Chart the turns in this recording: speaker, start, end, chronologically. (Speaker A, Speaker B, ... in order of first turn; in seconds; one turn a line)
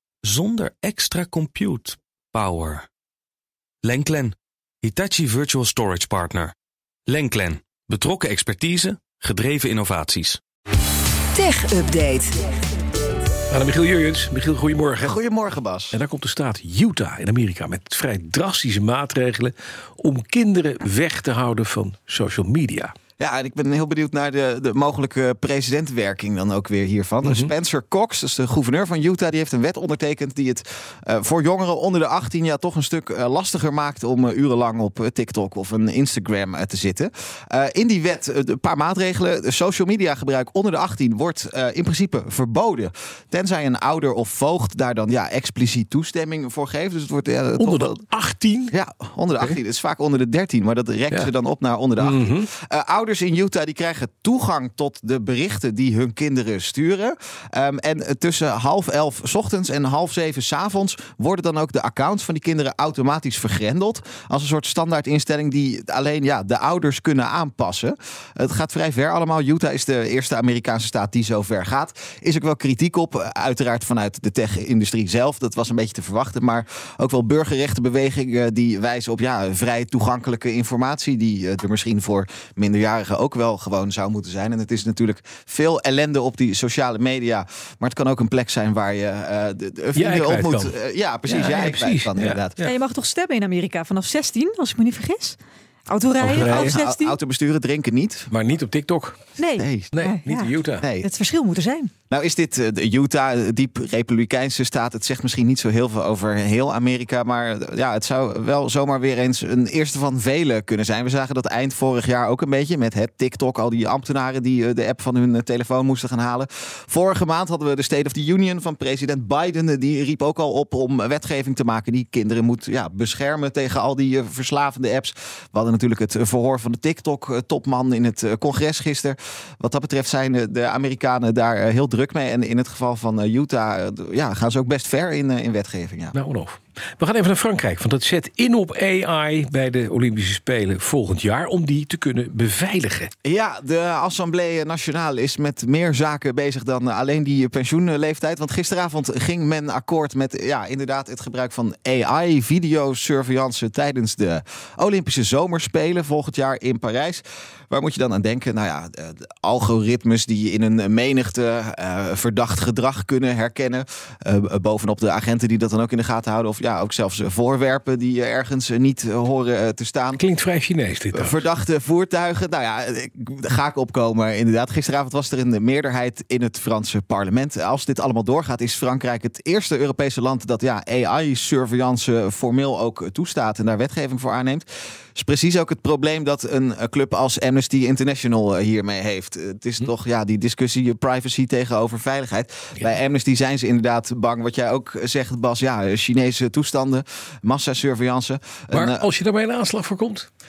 Speaker A: 0.2-2.9
Speaker A: 3.8-6.5
Speaker A: 7.1-10.4
Speaker A: 11.4-12.3
Speaker B: 13.5-15.2
Speaker C: 15.0-16.0
Speaker B: 15.9-22.9
Speaker C: 23.2-48.0
Speaker B: 27.2-27.5
Speaker B: 47.6-48.7
Speaker C: 48.7-92.6
Speaker B: 52.0-52.5
Speaker B: 89.9-92.7
Speaker D: 92.6-97.2
Speaker B: 96.2-96.8
Speaker C: 96.2-98.3
Speaker B: 98.3-99.2
Speaker D: 99.4-101.9
Speaker C: 99.6-99.9
Speaker B: 99.9-100.9
Speaker C: 100.8-101.1
Speaker C: 102.1-136.2
Speaker B: 136.1-143.1
Speaker C: 143.2-170.2
Speaker B: 170.2-171.4
Speaker C: 171.1-199.0
Speaker B: 198.7-200.3